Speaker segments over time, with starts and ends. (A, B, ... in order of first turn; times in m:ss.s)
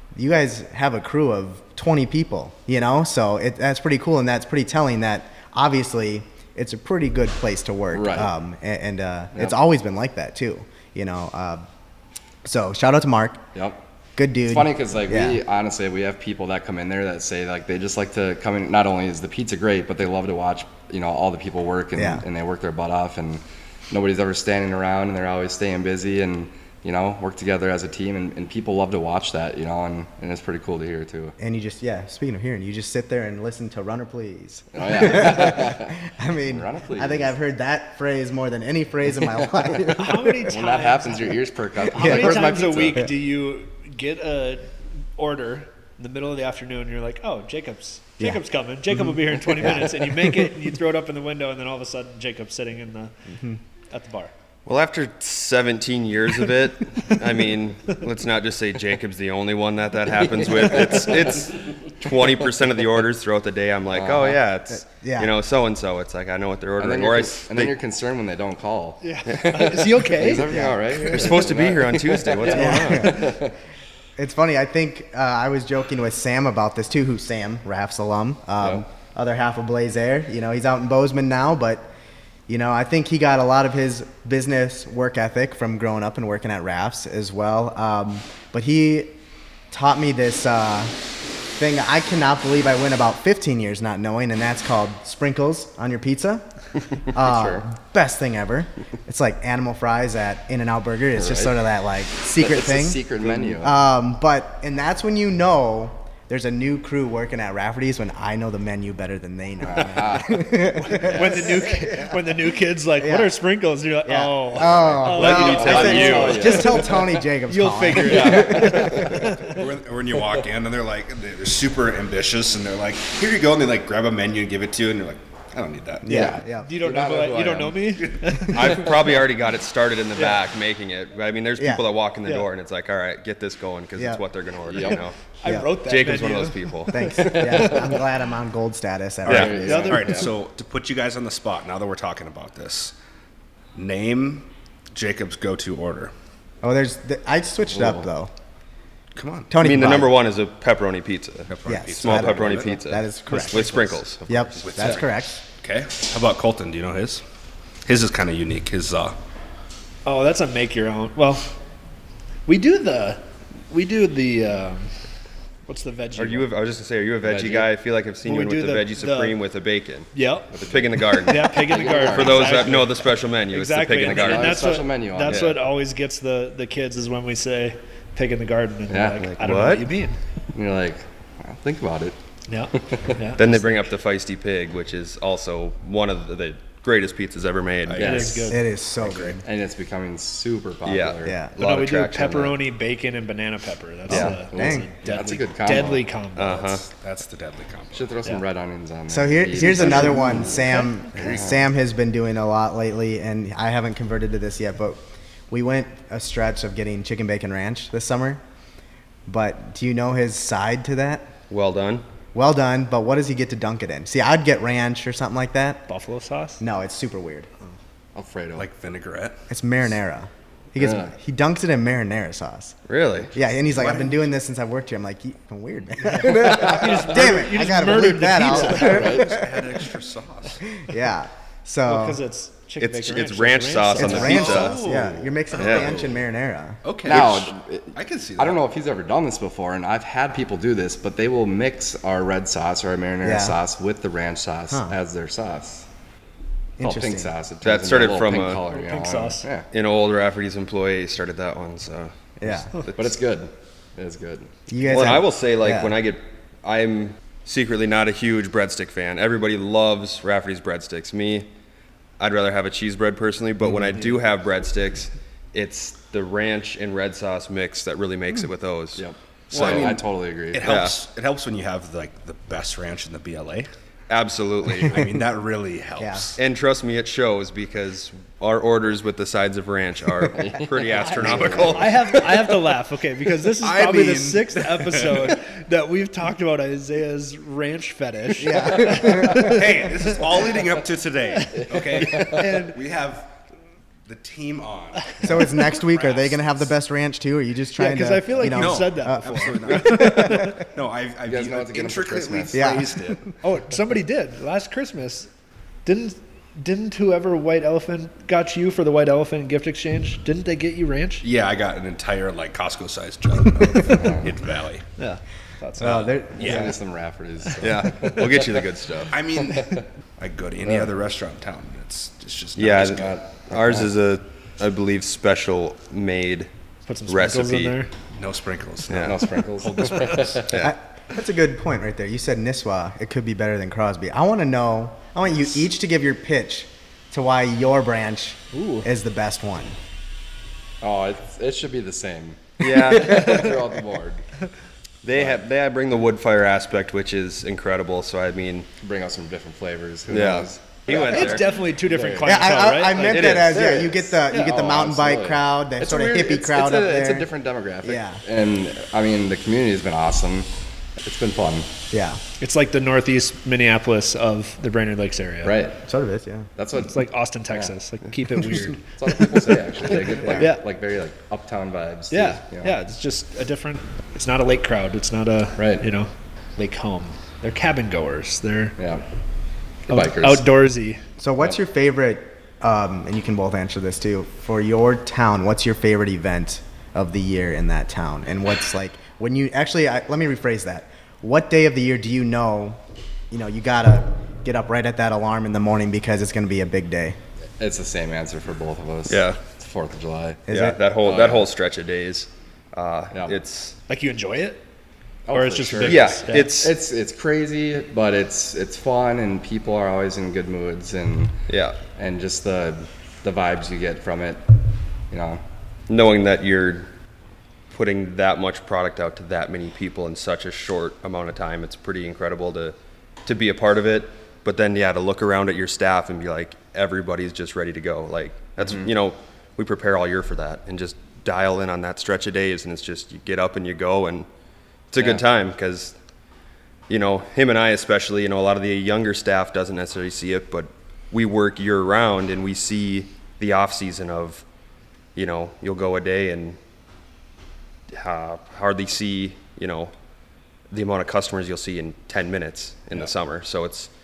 0:00.2-0:11.6 A
0:07.9-0:08.3 B
0:12.4-0:13.4 A
0:13.6-0:13.8 B
0:14.2-0:15.4 A
0:14.5-0:31.4 B
0:22.0-0:22.2 A
0:31.4-0:40.5 A
0:34.7-0:37.4 B
0:39.4-0:40.0 B
0:40.0-0:53.2 C
0:40.5-0:43.1 B
0:41.9-0:42.4 A
0:49.1-0:50.0 A
0:53.9-0:54.3 C
0:54.7-1:07.7 D
1:00.3-1:01.4 B
1:03.9-1:04.4 B
1:04.7-1:05.3 A
1:06.8-1:13.6 B
1:09.0-1:10.5 C
1:09.3-1:09.8 D
1:10.3-1:11.1 A
1:11.0-1:13.4 D
1:12.5-1:13.4 A
1:14.2-1:21.9 A
1:22.5-1:29.2 A
1:29.7-1:31.0 A
1:31.6-1:36.4 A
1:37.1-1:52.4 A
1:37.2-1:37.6 B
1:41.2-1:41.7 B
1:42.2-1:43.8 B
1:49.6-1:51.6 B
1:50.8-1:59.6 C
1:53.0-1:53.3 A
1:54.0-1:59.4 A
1:55.0-1:56.6 D
1:55.2-1:57.2 B
1:58.0-1:59.3 B
1:59.4-2:06.2 E
2:06.0-2:06.7 A
2:06.1-2:08.0 B
2:06.6-2:09.0 C
2:08.1-2:08.4 E
2:08.5-2:15.2 D
2:11.6-2:11.9 A
2:14.0-2:14.2 A
2:14.7-2:15.0 B
2:15.4-2:17.8 C
2:15.4-2:15.7 A
2:15.8-2:17.0 D
2:16.9-2:19.8 A
2:17.2-2:18.0 B
2:19.3-2:20.3 B
2:19.3-2:19.6 D
2:19.3-2:23.0 E
2:19.6-2:20.3 C
2:23.8-2:26.1 E
2:26.6-2:28.3 A
2:27.7-2:28.0 B
2:29.2-2:29.5 E
2:29.5-2:30.2 A
2:29.6-2:35.0 D
2:31.5-2:32.7 E
2:31.7-2:35.4 A
2:34.6-2:37.2 E
2:37.8-2:39.2 E
2:40.1-2:41.5 C
2:42.5-2:45.0 C
2:45.7-2:46.5 C
2:46.2-2:50.1 D
2:47.2-2:47.7 B
2:48.2-2:49.4 C
2:50.1-2:50.5 C
2:50.5-2:52.8 B
2:50.6-2:55.6 D
2:51.1-3:00.2 C
2:54.0-2:55.5 B
2:58.9-2:59.3 B
2:59.4-2:59.9 D
3:00.5-3:02.2 B
3:02.5-3:03.5 C
3:02.8-3:03.2 B
3:03.4-3:08.5 D
3:07.9-3:08.3 E
3:08.0-3:08.5 B
3:08.0-3:08.7 C
3:08.5-3:09.4 A
3:09.0-3:09.4 E
3:09.4-3:11.4 B
3:10.8-3:12.6 D
3:11.2-3:11.6 A
3:11.6-3:16.8 C
3:14.1-3:14.4 D
3:14.1-3:16.0 B
3:14.1-3:14.9 A
3:16.4-3:16.8 D
3:16.9-3:18.1 E
3:17.9-3:21.6 B
3:19.1-3:28.4 A
3:29.3-3:31.3 A
3:31.5-3:32.0 D
3:32.3-3:35.8 A
3:35.9-3:36.6 C
3:36.6-3:37.5 A
3:38.2-3:38.7 B
3:38.6-3:39.4 E
3:39.5-3:42.8 A
3:40.8-3:41.1 B
3:42.9-3:43.3 D
3:43.3-3:49.8 A
3:43.7-3:44.2 E
3:46.0-3:49.2 C
3:48.5-3:49.4 B
3:48.9-3:50.6 E
3:50.7-3:52.2 A
3:51.8-3:54.7 C
3:52.8-3:54.8 D
3:54.0-3:56.8 A
3:54.1-3:56.2 E
3:55.6-3:55.9 D
3:56.8-3:58.6 E
3:57.0-4:05.9 B
4:03.2-4:03.6 A
4:06.8-4:07.3 A
4:06.8-4:09.7 B
4:07.6-4:08.6 D
4:08.7-4:09.5 C
4:09.7-4:13.2 D
4:12.4-4:12.7 A
4:13.0-4:14.5 B
4:14.7-4:16.0 A
4:14.8-4:21.5 D
4:22.2-4:29.9 D
4:29.0-4:30.7 B
4:29.5-4:33.7 E
4:30.6-4:31.0 D
4:34.1-4:35.1 D
4:34.8-4:36.4 E
4:36.0-4:36.3 A
4:36.4-4:42.3 D
4:40.3-4:42.2 B
4:41.0-4:49.7 C
4:43.6-4:45.3 E
4:48.4-4:49.5 A
4:49.1-4:53.3 E
4:51.4-4:52.8 C
4:51.5-4:52.6 B
4:54.1-4:56.5 E
4:55.2-5:00.6 A
4:57.8-5:00.6 C
4:58.4-5:03.3 E
5:01.3-5:02.7 B
5:02.5-5:03.2 A
5:03.4-5:05.3 C
5:05.8-5:11.2 C
5:11.2-5:14.8 E
5:13.8-5:14.4 B
5:15.0-5:16.1 C
5:15.8-5:16.7 A
5:16.0-5:16.7 E
5:16.4-5:18.7 B
5:17.6-5:19.2 D
5:19.1-5:23.2 E
5:19.5-5:19.8 B
5:22.6-5:26.5 D
5:23.5-5:23.9 B
5:26.9-5:27.9 C
5:27.1-5:27.8 D
5:28.2-5:30.4 E
5:28.9-5:29.2 D
5:29.0-5:30.7 B
5:30.5-5:30.8 D
5:30.6-5:39.8 A
5:38.5-5:38.9 C
5:40.8-5:44.2 B
5:42.6-5:43.6 D
5:45.0-5:48.7 D
5:45.1-5:45.4 B
5:48.8-5:52.4 B
5:50.1-5:51.5 D
5:50.9-5:53.6 C
5:52.2-5:57.3 A
5:53.1-5:53.8 D
5:53.5-6:01.7 B
5:57.8-5:58.2 A
6:01.9-6:02.2 A
6:02.4-6:05.6 C
6:05.4-6:05.8 B
6:05.8-6:06.5 A
6:06.6-6:07.7 B
6:06.8-6:09.5 C
6:08.8-6:12.8 B
6:10.2-6:10.5 A
6:10.2-6:10.6 C
6:12.1-6:18.8 C
6:15.6-6:15.8 B
6:18.8-6:19.0 B
6:19.9-6:20.5 B
6:19.9-6:21.0 C
6:21.2-6:32.8 A
6:33.3-6:37.2 A
6:37.6-6:40.5 B
6:39.1-6:39.4 D
6:40.5-6:40.8 A
6:40.5-6:43.8 D
6:41.0-6:41.5 B
6:43.1-6:43.4 B
6:43.9-6:44.6 C
6:45.3-6:51.4 B
6:45.3-6:46.6 C
6:45.8-6:46.7 D
6:51.5-6:51.8 D
6:52.0-6:54.4 B
6:55.1-6:55.4 B
6:55.9-6:56.9 D
6:57.7-7:14.3 D
7:14.9-7:16.0 D
7:15.0-7:15.2 B
7:16.9-7:24.4 D
7:25.2-7:26.6 D
7:27.9-7:29.9 D
7:30.7-7:33.9 D